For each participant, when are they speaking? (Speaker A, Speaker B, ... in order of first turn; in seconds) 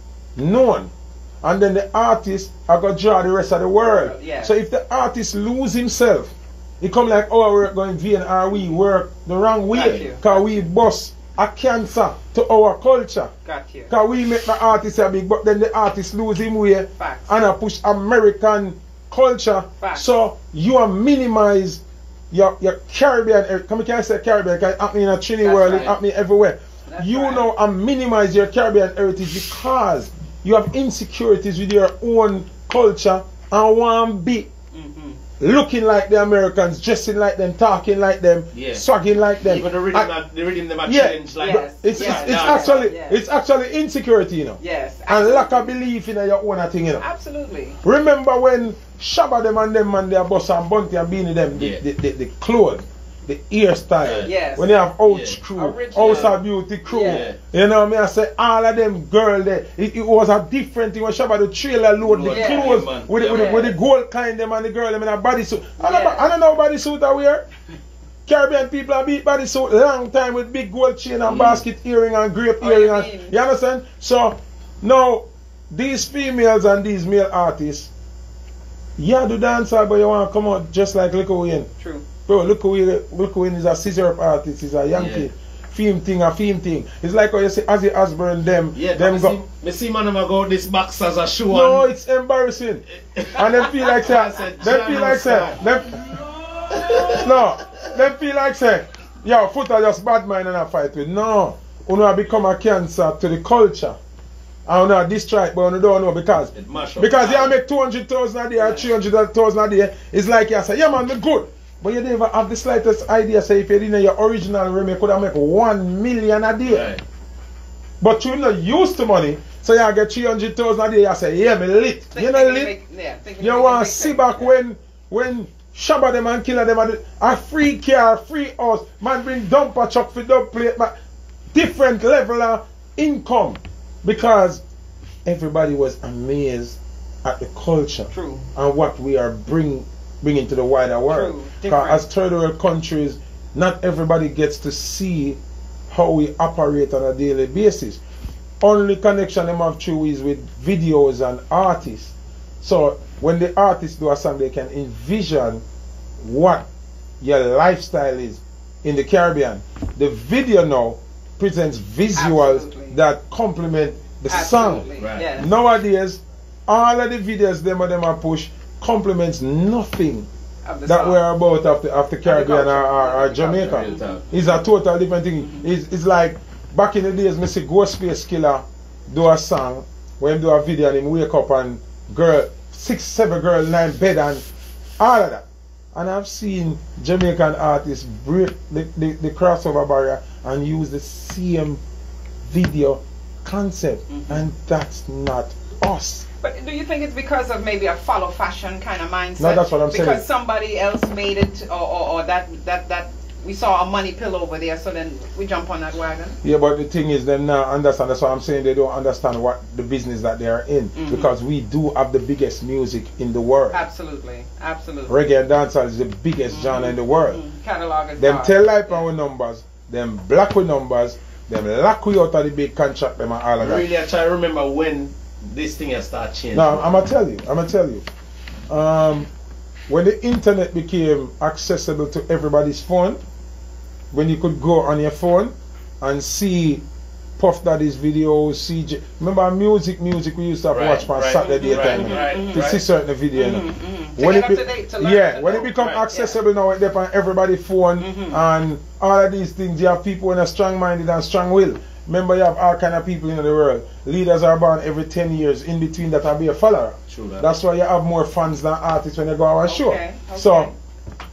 Speaker A: 0.3-0.9, 1.4-13.3, 13.9-34.5, 35.4-40.1, 40.8-47.0, 47.8-67.4, 68.2-77.9, 79.0-81.7, 82.2-89.4, 91.5-96.2, 97.0-104.0, 104.7-116.9, 118.0-122.7, 123.4-130.9, 131.5-134.6, 135.2-148.0, 148.6-155.6, 156.2-156.7, 157.2-170.3, 170.8-184.4, 185.0-191.8, 192.4-196.2, 199.4-200.2, 206.4-213.8, 215.1-217.4, 218.2-223.8, 226.5-228.1, 228.7-229.3, 229.9-233.2, 234.1-236.8, 237.4-260.7
Speaker B: 3.8-4.5, 9.7-10.7, 13.4-13.9, 16.9-17.4, 19.8-20.1, 25.4-26.0, 26.9-27.5, 34.7-35.2, 41.4-43.2, 44.6-45.7, 47.0-47.8, 54.2-54.8, 55.5-57.3, 62.3-63.7, 65.8-66.3, 72.6-73.3, 81.8-82.0, 108.6-108.9, 122.1-124.5, 138.1-138.4, 141.1-142.0, 162.2-163.0, 164.3-165.5, 170.6-171.2, 172.2-174.3, 175.4-175.7, 194.1-194.4, 196.4-206.4, 210.9-211.3, 213.7-215.2, 216.5-219.0, 241.4-242.7, 243.3-246.4, 248.0-248.4, 259.7-260.8
Speaker C: 38.5-38.8, 39.4-42.8, 51.6-51.8, 54.0-54.3, 55.0-55.4, 56.0-56.4, 57.0-57.4, 62.0-63.7, 71.3-71.6, 84.9-85.3, 88.7-91.8, 93.0-95.6, 96.7-97.8, 106.5-107.5, 116.6-117.0, 165.0-165.3, 173.5-174.3, 223.6-227.0, 240.7-242.8, 245.8-246.0, 257.1-257.5